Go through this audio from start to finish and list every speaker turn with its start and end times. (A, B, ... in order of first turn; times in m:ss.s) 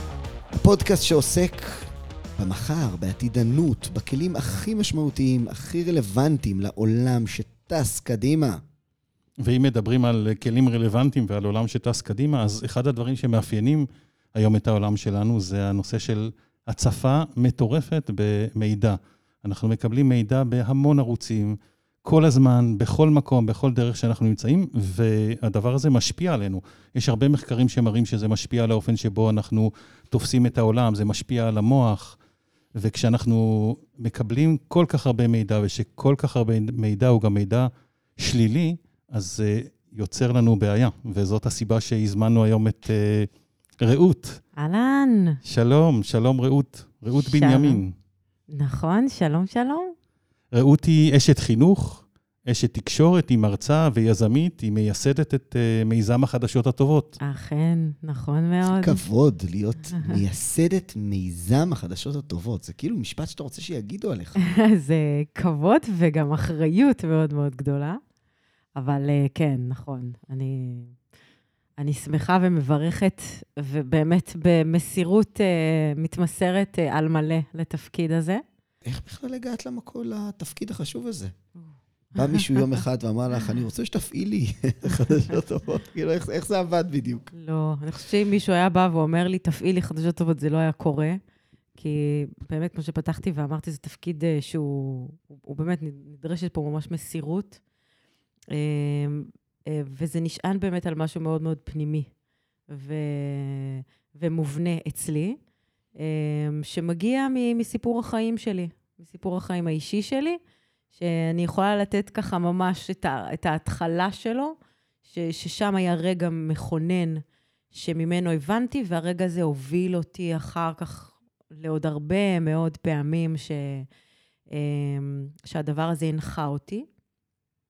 0:00.5-0:08.6 A
0:09.4-0:32.2 B
0:32.8-0:44.4 B
0:44.6-0:45.4 C
0:45.4-0:47.9 B
0:47.2-0:47.8 C
0:48.5-0:49.9 C
0:50.5-0:57.2 B
0:57.2-0:59.0 C
0:58.7-1:04.4 A
1:04.4-1:08.0 C
1:08.8-1:10.9 C
1:11.8-1:18.4 C
1:18.8-1:21.3 A
1:22.1-1:27.3 A
1:22.2-1:22.8 C
1:27.3-1:31.2 C
1:31.8-1:37.6 C
1:38.5-1:42.1 C
1:42.7-1:45.4 C
1:46.0-1:50.4 C
1:50.9-2:03.9 C
2:04.5-2:06.8 C